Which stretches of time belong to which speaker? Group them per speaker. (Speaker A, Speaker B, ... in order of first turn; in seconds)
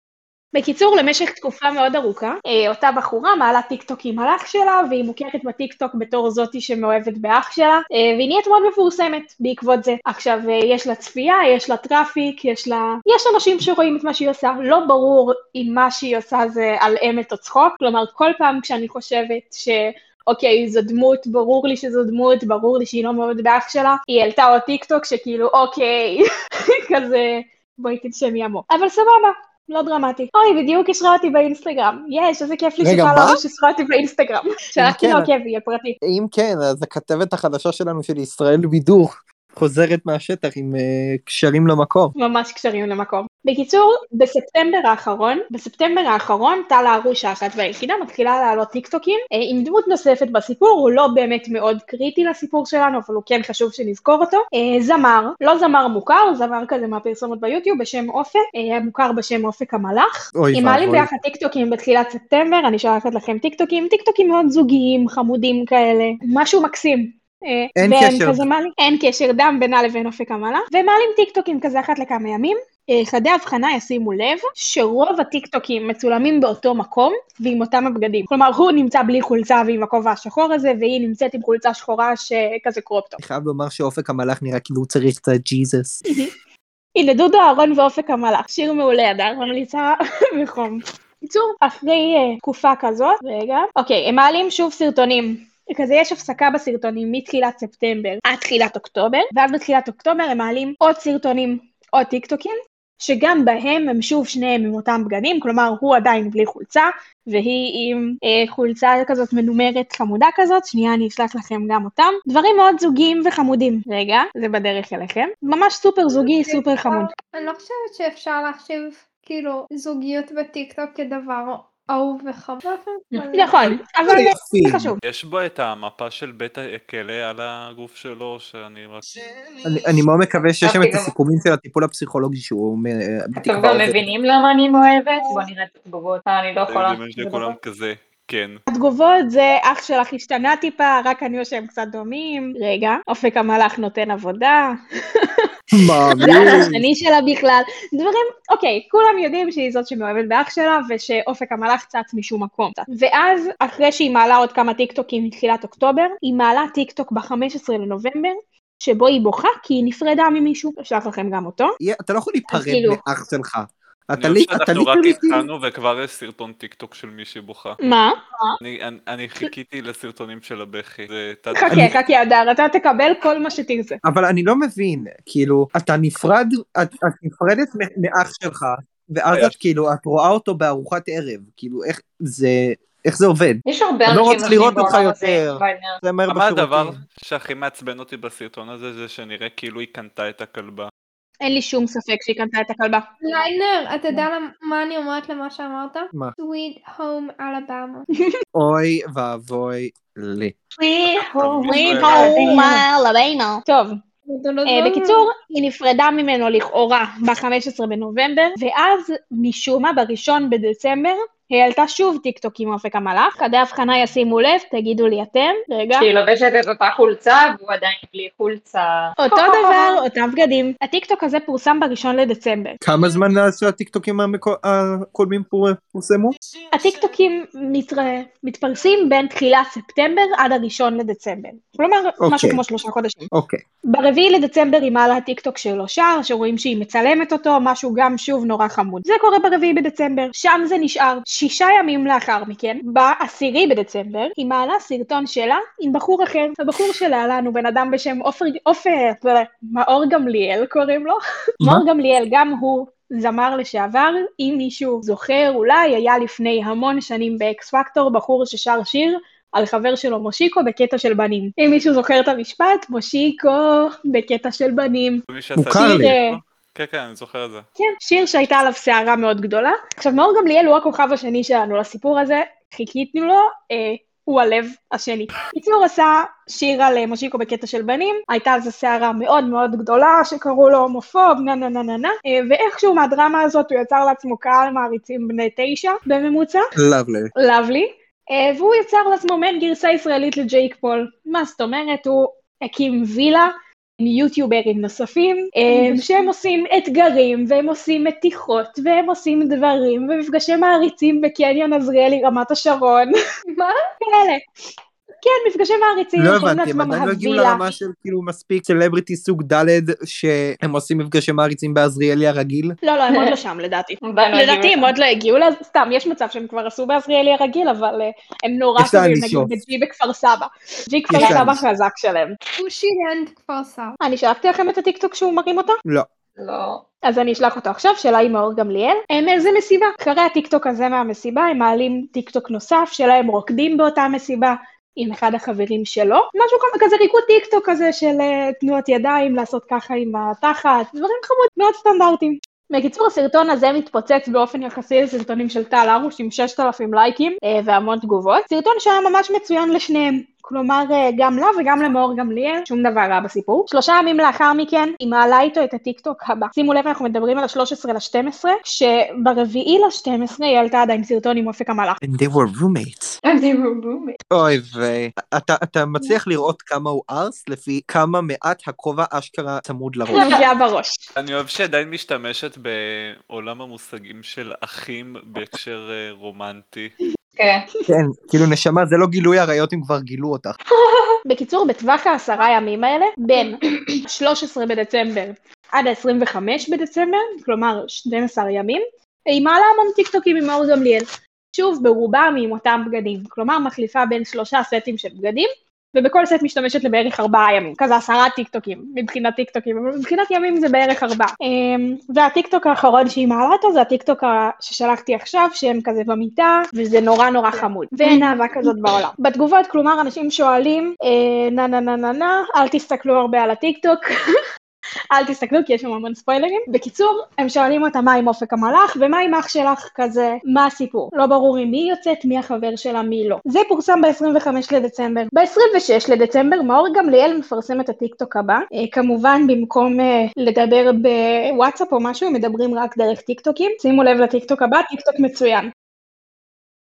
Speaker A: 0.5-36.0, 42.2-83.2, 86.9-117.1, 123.3-125.0, 138.7-145.5, 146.1-161.8, 162.5-163.0, 167.8-168.6, 171.5-174.0, 191.4-193.0, 201.7-204.0, 204.7-216.1, 219.2-222.8, 226.7-233.3, 233.9-266.4, 267.8-286.7, 287.4-303.1, 304.0-304.4, 305.2-307.6, 312.8-322.4, 324.0-325.8, 327.0-362.0, 370.1-371.0, 381.2-414.1, 415.1-435.7
Speaker B: 32.8-33.4, 34.8-35.3, 36.0-42.1, 60.3-61.1, 67.8-68.4, 83.2-86.1, 124.1-125.0, 129.6-134.1, 145.7-146.8, 161.8-165.5, 174.0-187.0, 198.5-200.6, 222.8-226.3, 232.2-232.6, 233.3-233.6, 265.6-266.1, 286.8-287.3, 306.2-312.8, 318.8-319.6, 321.1-321.6, 362.0-363.2, 364.3-370.3, 377.9-380.5
Speaker C: 116.2-123.7, 193.2-198.1, 204.3-205.2, 295.7-296.3, 303.5-303.8, 322.6-324.0
Speaker D: 125.0-129.0, 136.7-138.6, 164.2-167.8, 168.6-171.9, 179.3-179.6, 184.2-185.0, 186.3-190.9, 201.4-202.6, 265.3-267.7, 371.1-376.9
Speaker E: 130.6-131.1, 133.4-137.6, 146.2-146.6, 183.7-186.0, 200.8-202.9, 215.9-220.0, 313.1-313.3, 314.0-314.9, 326.4-326.8, 363.2-364.2, 370.1-370.4, 377.4-377.6, 380.7-381.2